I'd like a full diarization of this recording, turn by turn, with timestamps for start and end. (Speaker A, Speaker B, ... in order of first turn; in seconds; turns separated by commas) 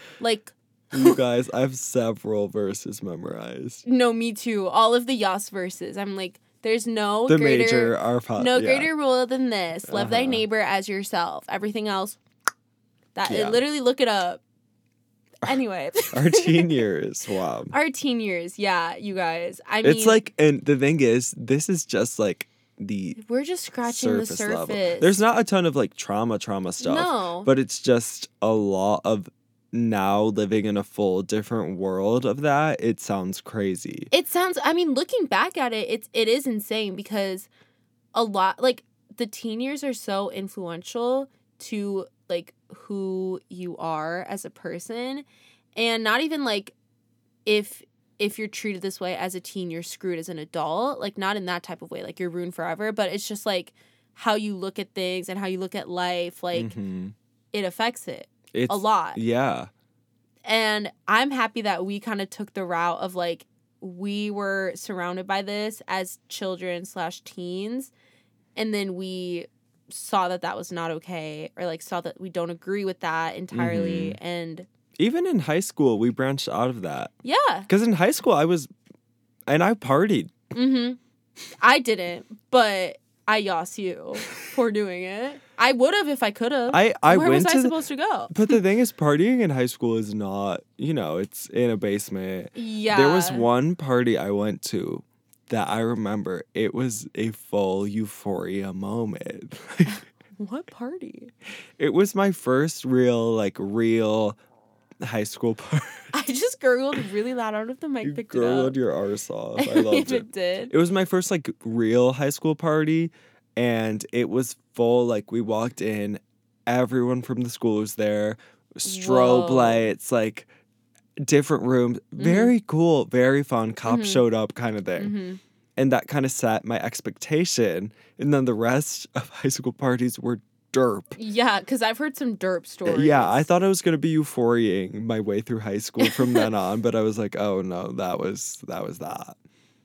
Speaker A: 0.2-1.2, Speaker B: 0.9-3.8, Speaker A: 3.8-12.2, Speaker B: 7.3-8.9, Speaker B: 9.8-10.4, Speaker A: 13.1-14.4, Speaker B: 13.2-13.6, Speaker A: 15.4-16.8, Speaker B: 16.1-17.7, Speaker A: 17.7-20.2, Speaker B: 19.8-23.2, Speaker A: 23.2-25.2, Speaker B: 23.9-34.1, Speaker A: 26.8-27.5, Speaker A: 34.1-37.5, Speaker A: 38.1-46.7, Speaker A: 47.4-56.7, Speaker B: 56.5-57.1, Speaker A: 57.5-59.2, Speaker B: 58.5-59.7, Speaker A: 60.4-67.9, Speaker A: 68.5-74.7, Speaker B: 73.5-74.2, Speaker B: 75.0-77.1, Speaker A: 77.2-77.7, Speaker B: 77.7-78.7, Speaker B: 79.5-80.3, Speaker A: 80.5-81.0, Speaker A: 81.6-88.5, Speaker B: 86.7-87.7, Speaker B: 88.3-100.0, Speaker A: 92.5-93.5, Speaker A: 100.4-101.3, Speaker B: 101.8-104.4, Speaker B: 105.0-106.1, Speaker A: 106.1-108.8, Speaker B: 108.0-120.5, Speaker A: 109.6-110.7, Speaker A: 118.8-119.9, Speaker B: 121.2-125.1, Speaker A: 122.2-122.5, Speaker A: 123.8-124.2, Speaker A: 125.0-125.4, Speaker B: 125.8-131.2, Speaker A: 131.2-133.4, Speaker B: 132.8-139.4, Speaker A: 136.0-136.5